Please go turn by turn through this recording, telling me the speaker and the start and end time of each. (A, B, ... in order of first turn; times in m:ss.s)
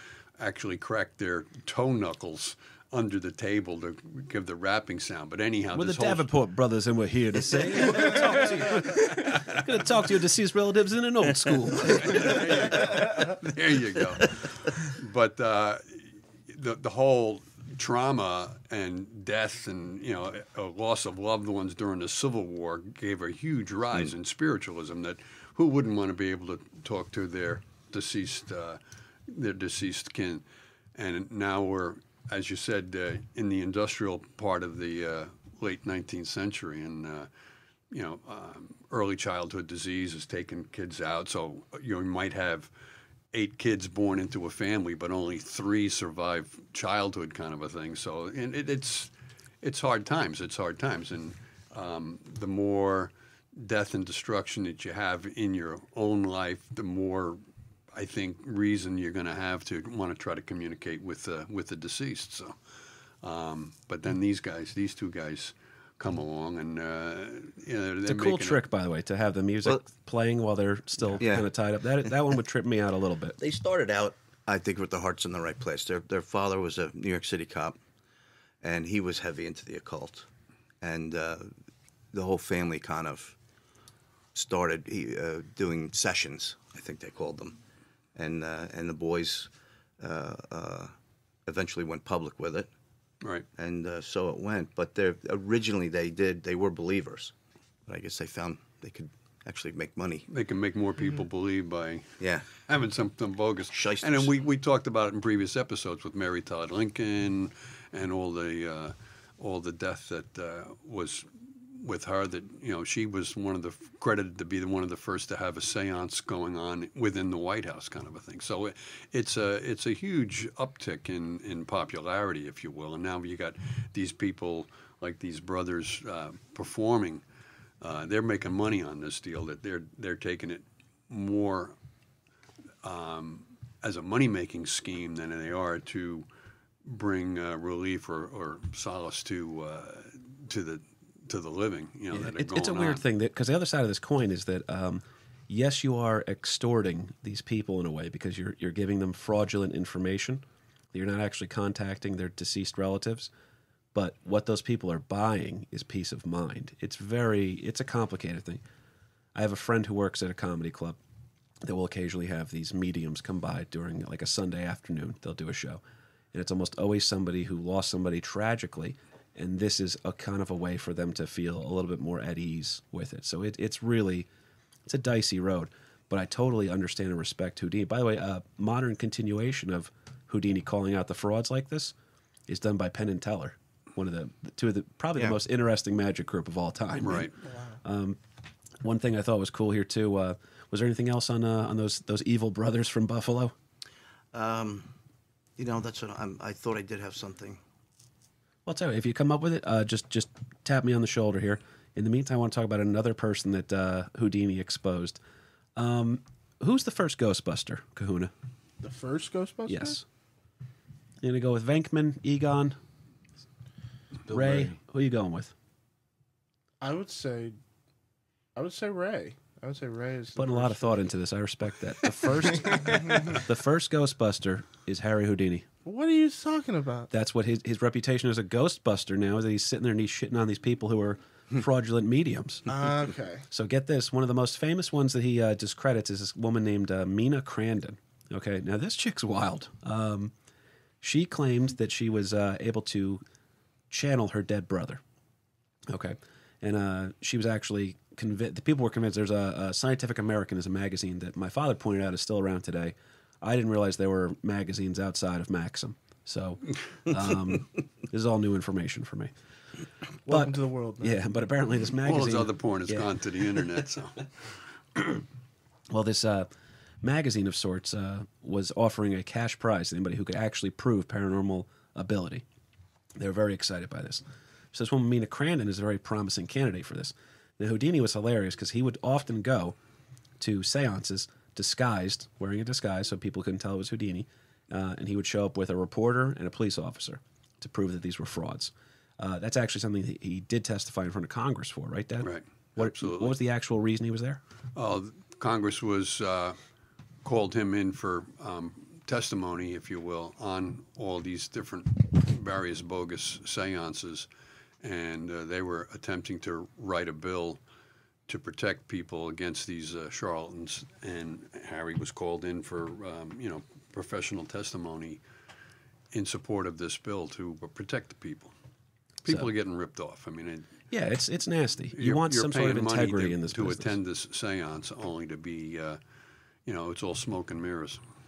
0:00.4-0:06.3 A
0:05.7-0:12.4 B
0:07.9-0:08.2 A
0:09.1-0:09.4 A
0:11.9-0:30.4 A
0:31.0-0:37.3 A
0:37.9-0:42.7 A
0:43.3-0:57.4 A
0:57.9-1:02.6 A
1:03.2-1:08.6 A
1:08.0-1:13.4 B
1:11.2-1:11.5 C
1:13.4-1:17.8 C
1:18.6-1:20.3 C
1:20.8-1:21.5 C
1:22.1-1:23.4 C
1:24.4-1:27.6 C
1:28.2-1:30.9 C
1:31.5-1:32.7 C
1:33.6-1:37.3 C
1:37.9-1:40.3 C
1:40.3-2:07.2 A
1:42.2-1:42.5 C
1:43.7-1:44.3 C
2:07.8-2:11.8 A
2:12.8-2:16.3 A
2:16.8-2:23.0 A
2:22.1-2:33.3 B
2:33.9-2:38.6 B
2:39.4-2:41.0 B
2:41.6-2:45.8 B
2:46.3-2:54.3 B
2:54.9-3:01.9 B
3:02.5-3:07.3 B
3:07.0-3:07.3 A
3:07.8-3:08.2 B
3:08.8-3:13.5 B
3:14.3-3:14.9 C
3:15.6-3:17.6 C
3:18.7-3:25.2 B
3:25.8-3:28.3 B
3:28.8-3:30.0 D
3:29.7-3:30.0 B
3:31.2-3:32.8 B
3:34.3-3:35.5 B
3:36.8-3:37.6 D
3:38.6-3:41.0 D
3:40.4-3:45.7 B
3:45.8-3:47.1 D
3:47.1-3:52.8 B
3:52.7-3:53.4 D
3:53.5-4:00.3 B
4:01.0-4:03.2 B
4:03.9-4:05.0 B
4:05.9-4:19.3 B
4:20.2-4:21.2 D
4:20.3-4:23.1 B
4:22.0-4:24.2 A
4:25.9-4:26.5 B
4:27.0-4:32.4 B
4:33.2-4:39.8 B
4:40.4-4:54.4 B
4:52.2-4:53.4 A
4:54.8-4:56.6 A
4:57.2-5:04.3 A
5:04.8-5:07.6 A
5:08.3-5:15.2 A
5:16.1-5:18.5 A
5:19.2-5:20.7 A
5:20.9-5:24.0 B
5:22.0-5:26.0 A
5:26.7-5:28.0 A